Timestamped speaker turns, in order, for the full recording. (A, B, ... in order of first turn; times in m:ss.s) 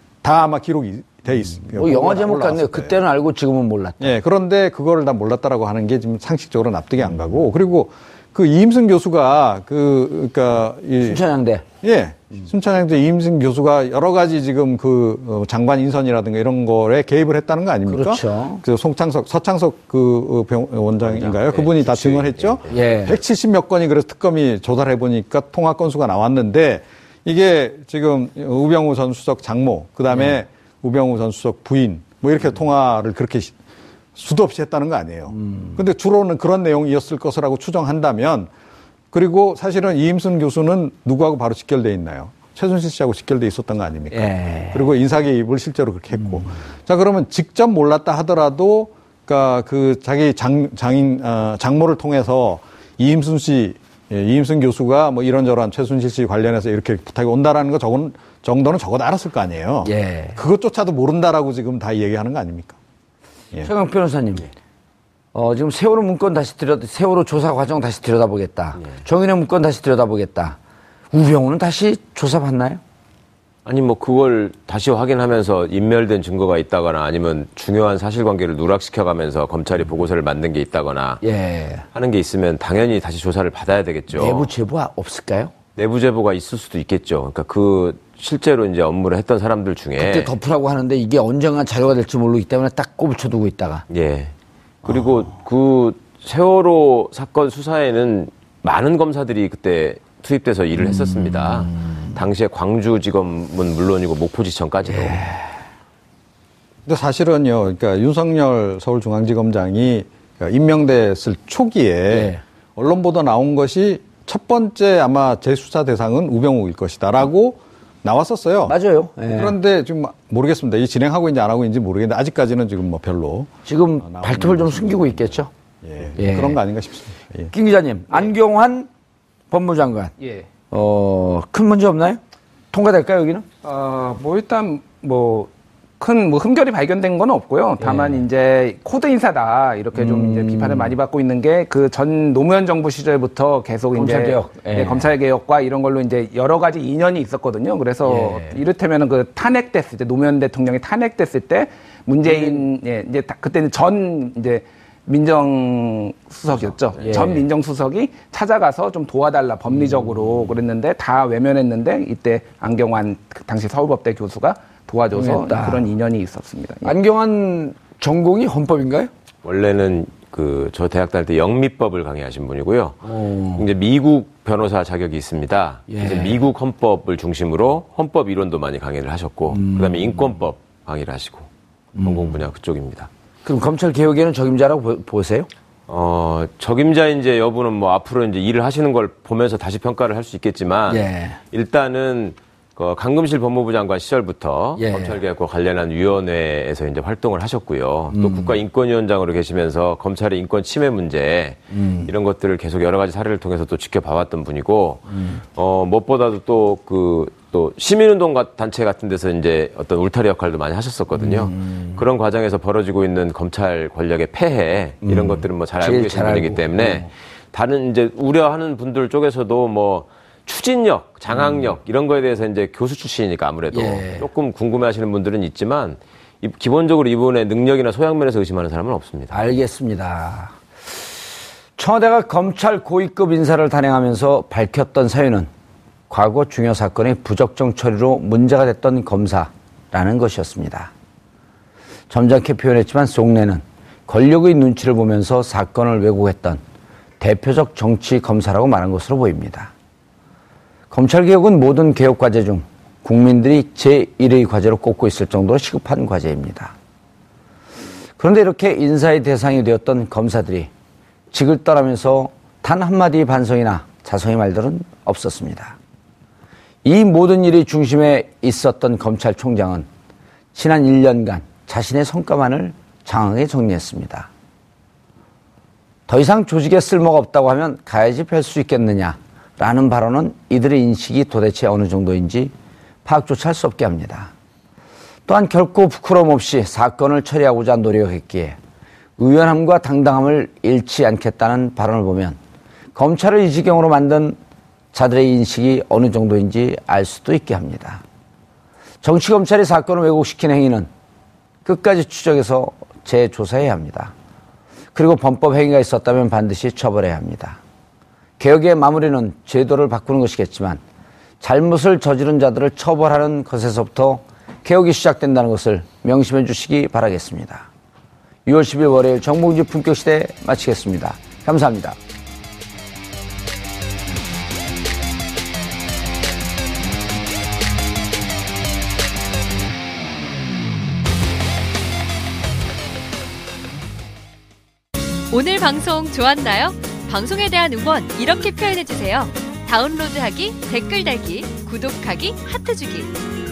0:00.2-0:03.0 A
0:01.7-0:04.1 B
0:04.0-0:11.2 A
0:11.0-0:11.6 B
0:11.8-0:33.5 A
0:17.9-0:18.6 B
0:21.0-0:22.8 C
0:22.7-0:23.2 B
0:30.1-0:30.4 B
0:34.1-0:38.5 A
0:35.3-0:35.8 B
0:39.1-1:02.8 A
0:44.1-0:44.9 B
0:59.8-1:00.4 B
1:03.6-1:04.5 B
1:05.3-1:10.6 B
1:11.1-1:12.8 B
1:13.6-1:21.2 C
1:21.2-1:21.8 B
1:21.9-1:24.5 C
1:24.1-1:25.5 B
1:25.8-1:30.3 C
1:30.0-1:33.8 B
1:33.9-1:34.3 C
1:34.8-1:45.3 C
1:40.8-1:42.1 B
1:44.9-1:45.4 B
1:46.8-1:58.7 A
1:52.1-1:52.4 B
1:58.7-1:59.5 B
1:59.3-2:07.5 A
2:03.6-2:05.5 B
2:06.2-2:06.6 B
2:07.5-2:08.9 B
2:09.5-2:10.1 B
2:10.2-2:10.4 D
2:10.7-2:12.2 B
2:12.7-2:13.4 B
2:13.6-2:46.9 D
2:17.8-2:18.2 B
2:19.9-2:21.0 B
2:23.9-2:25.1 B
2:28.0-2:28.6 B
2:32.2-2:32.6 B
2:37.0-2:37.4 B
2:39.8-2:40.5 B
2:45.1-2:45.9 B
2:46.8-2:49.1 B
2:49.4-3:01.5 C
2:53.0-2:53.7 B
2:55.9-2:56.4 B
2:59.5-3:00.3 B
3:01.9-3:02.4 B
3:02.0-3:03.1 C
3:03.4-3:05.5 B
3:05.9-3:49.4 C
3:10.9-3:11.4 B
3:14.8-3:15.2 B
3:18.1-3:18.6 B
3:21.7-3:22.1 B
3:25.1-3:25.4 B
3:31.2-3:32.0 B
3:35.0-3:37.1 B
3:43.7-3:44.2 B
3:49.3-3:50.5 B
3:51.8-3:55.5 B
3:56.1-4:00.9 B
4:02.1-4:06.6 B
4:07.2-4:09.7 B
4:10.9-4:16.7 B
4:18.2-4:20.7 B
4:21.3-4:25.8 B
4:26.8-4:29.9 B
4:30.5-4:34.3 B
4:36.1-4:42.5 B
4:43.0-4:44.3 B
4:45.3-4:48.6 B
4:49.2-4:52.4 B
4:52.9-4:54.4 B
4:54.9-4:58.0 B
4:59.0-5:00.9 B
5:01.6-5:04.1 B
5:04.9-5:07.6 B
5:08.4-5:10.8 B
5:11.4-5:17.7 B
5:18.4-5:22.0 B
5:35.3-5:43.1 E